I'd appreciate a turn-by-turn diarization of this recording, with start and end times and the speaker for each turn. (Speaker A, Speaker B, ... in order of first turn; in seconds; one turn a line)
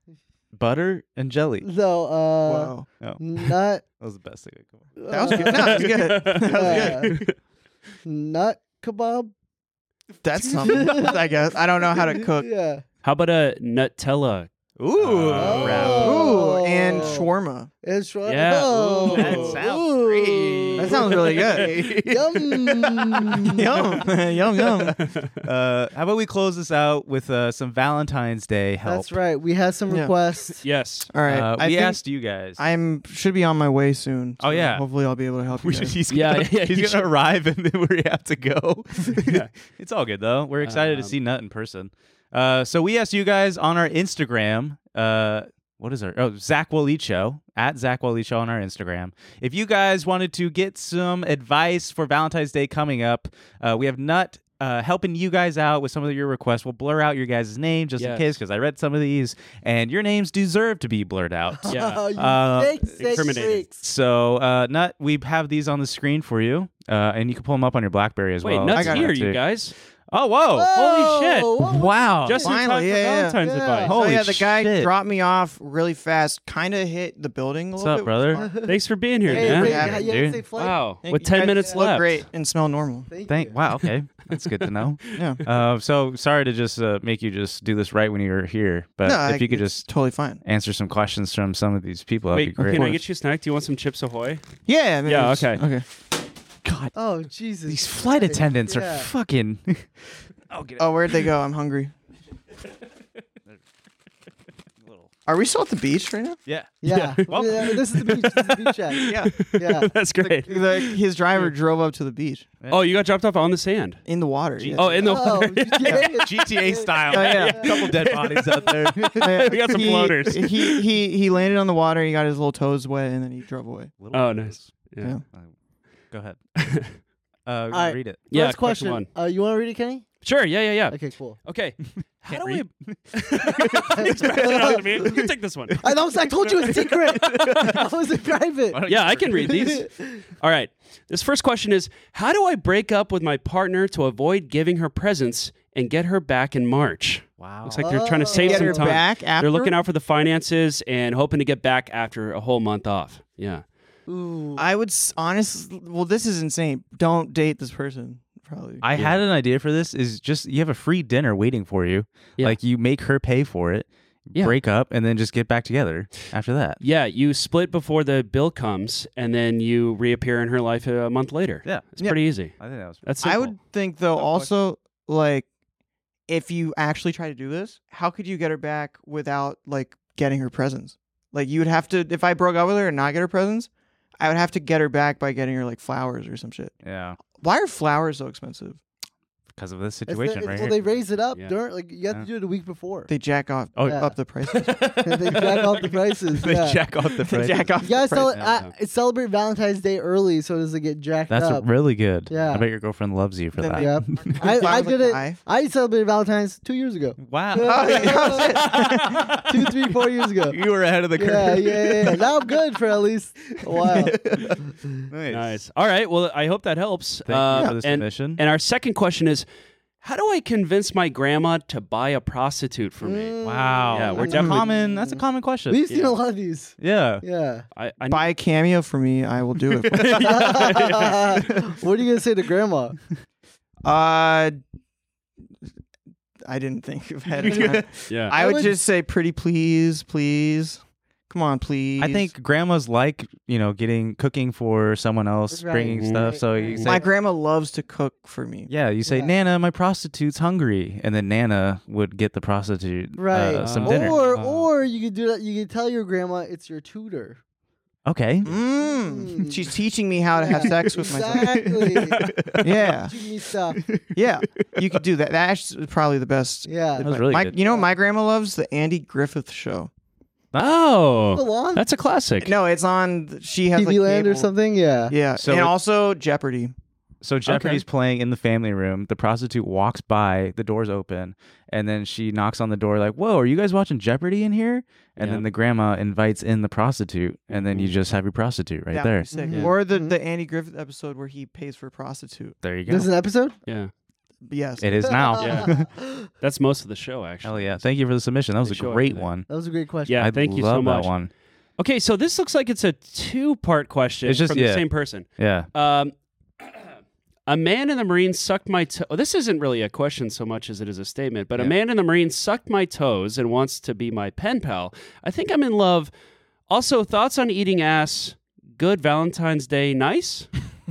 Speaker A: 0.5-1.7
Speaker B: 1.6-3.8
Speaker C: 2.4-2.9
Speaker A: 3.0-4.9
Speaker B: 5.0-5.9
Speaker C: 5.1-7.2
Speaker D: 5.5-7.3
Speaker B: 6.4-7.1
Speaker B: 8.0-9.3
Speaker C: 10.2-12.5
Speaker A: 10.4-10.8
Speaker B: 10.7-11.2
Speaker B: 12.3-12.8
Speaker D: 13.0-16.3
Speaker A: 14.8-16.2
Speaker B: 15.3-17.3
Speaker C: 15.9-17.7
Speaker B: 17.8-21.2
Speaker D: 18.2-19.6
Speaker A: 19.1-23.5
Speaker C: 20.8-22.1
Speaker B: 22.0-23.6
Speaker C: 23.5-24.9
Speaker D: 25.0-25.4
Speaker A: 25.4-29.1
Speaker B: 28.9-30.6
Speaker D: 30.6-31.1
Speaker C: 31.1-32.0
Speaker A: 31.3-32.6
Speaker C: 32.6-36.0
Speaker A: 34.4-34.8
Speaker A: 35.6-69.4
Speaker D: 36.1-37.1
Speaker D: 39.2-39.5
Speaker D: 40.6-41.1
Speaker D: 58.0-58.3
Speaker B: 61.6-63.8
Speaker D: 61.7-62.0
Speaker D: 63.0-63.6
Speaker D: 68.4-69.7
Speaker C: 68.7-69.1
Speaker A: 70.1-70.7
Speaker B: 70.5-72.3
Speaker D: 70.7-71.7
Speaker A: 71.6-72.5
Speaker D: 72.2-74.0
Speaker C: 72.4-78.6
Speaker B: 73.4-73.9
Speaker A: 73.8-74.9
Speaker A: 77.8-78.4
Speaker B: 78.4-78.7
Speaker D: 78.6-79.8
Speaker C: 79.3-80.1
Speaker B: 79.3-80.8
Speaker A: 79.3-80.4
Speaker D: 80.5-82.2
Speaker C: 81.0-83.1
Speaker B: 83.1-83.5
Speaker A: 83.3-89.9
Speaker D: 84.4-85.1
Speaker C: 85.1-85.4
Speaker C: 89.0-90.4
Speaker A: 90.4-93.0
Speaker D: 92.3-94.4
Speaker C: 94.7-95.8
Speaker D: 95.0-95.6
Speaker A: 96.6-96.9
Speaker B: 96.9-99.1
Speaker A: 97.7-100.9
Speaker C: 100.8-101.9
Speaker A: 104.8-105.1
Speaker C: 105.3-106.4
Speaker A: 106.5-107.8
Speaker B: 106.8-109.9
Speaker D: 106.9-111.0
Speaker C: 109.0-109.3
Speaker C: 110.2-112.5
Speaker A: 112.6-112.9
Speaker D: 112.7-114.0
Speaker C: 114.0-115.2
Speaker A: 114.6-115.0
Speaker D: 114.7-116.2
Speaker B: 115.0-117.0
Speaker A: 115.9-119.5
Speaker C: 117.1-117.8
Speaker D: 117.1-120.8
Speaker C: 119.2-123.9
Speaker A: 124.0-124.8
Speaker D: 124.1-125.2
Speaker A: 126.1-126.4
Speaker D: 126.6-126.9
Speaker A: 127.5-128.2
Speaker B: 127.7-130.1
Speaker D: 128.3-129.1
Speaker D: 130.2-135.8
Speaker B: 130.9-131.4
Speaker A: 132.2-135.8
Speaker B: 133.9-135.2
Speaker B: 135.8-138.8
Speaker A: 136.5-137.8
Speaker A: 138.7-139.7
Speaker D: 138.9-153.6
Speaker B: 139.3-140.2
Speaker A: 147.4-147.8
Speaker B: 147.8-148.9
Speaker C: 148.4-149.8
Speaker B: 154.1-154.6
Speaker C: 154.6-158.8
Speaker A: 158.8-166.8
Speaker D: 158.9-159.2
Speaker D: 166.8-173.5
Speaker A: 171.6-171.9
Speaker A: 172.5-173.0
Speaker C: 173.2-175.5
Speaker C: 176.3-186.7
Speaker A: 186.8-187.2
Speaker C: 187.4-188.8
Speaker A: 189.6-190.8
Speaker B: 190.1-193.1
Speaker C: 193.1-194.9
Speaker A: 193.8-197.7
Speaker B: 193.8-194.1
Speaker B: 195.0-196.8
Speaker C: 197.3-198.4
Speaker B: 197.8-201.7
Speaker A: 201.3-204.4
Speaker B: 202.3-202.7
Speaker C: 203.6-205.4
Speaker B: 203.7-208.6
Speaker A: 207.2-209.7
Speaker C: 207.6-209.4
Speaker B: 209.4-210.6
Speaker A: 210.5-212.2
Speaker B: 211.2-214.2
Speaker A: 213.8-215.6
Speaker D: 215.3-219.5
Speaker A: 217.2-218.4
Speaker D: 220.0-223.3
Speaker B: 223.0-227.7
Speaker A: 223.4-225.8
Speaker D: 223.9-224.7
Speaker D: 225.9-226.2
Speaker A: 226.8-227.2
Speaker D: 227.7-228.2
Speaker C: 228.1-230.5
Speaker A: 229.9-231.6
Speaker D: 229.9-231.4
Speaker B: 230.2-232.9
Speaker C: 233.8-234.6
Speaker C: 236.4-242.3
Speaker B: 237.4-237.7
Speaker D: 238.1-238.3
Speaker B: 238.3-238.7
Speaker A: 242.0-246.9
Speaker B: 245.5-247.1
Speaker D: 245.9-246.9
Speaker C: 246.8-248.7
Speaker A: 248.7-254.2
Speaker B: 249.1-249.3
Speaker B: 253.2-257.4
Speaker D: 253.6-254.7
Speaker A: 258.1-258.5
Speaker C: 258.4-261.7
Speaker B: 258.8-259.6
Speaker B: 260.4-262.2
Speaker A: 260.6-262.9
Speaker C: 262.6-263.1
Speaker B: 263.1-263.8
Speaker A: 263.7-265.0
Speaker C: 264.1-269.9
Speaker B: 266.7-267.1
Speaker A: 267.0-267.5
Speaker D: 270.6-272.5
Speaker B: 271.3-271.8
Speaker C: 272.4-274.5
Speaker B: 273.7-275.1
Speaker C: 275.1-276.7
Speaker A: 275.4-275.7
Speaker A: 277.2-289.3
Speaker C: 277.5-277.8
Speaker D: 285.2-285.4
Speaker D: 287.5-287.9
Speaker C: 288.9-292.6
Speaker B: 289.3-290.1
Speaker A: 292.6-293.1
Speaker B: 292.9-293.6
Speaker C: 294.4-295.1
Speaker A: 294.8-295.9
Speaker B: 295.1-296.3
Speaker D: 295.4-295.7
Speaker D: 296.4-297.9
Speaker A: 297.4-299.5
Speaker D: 298.6-299.3
Speaker B: 299.5-300.2
Speaker D: 300.1-301.1
Speaker A: 300.2-301.3
Speaker D: 301.8-306.7
Speaker A: 304.2-305.7
Speaker D: 307.5-316.1
Speaker D: 316.7-320.5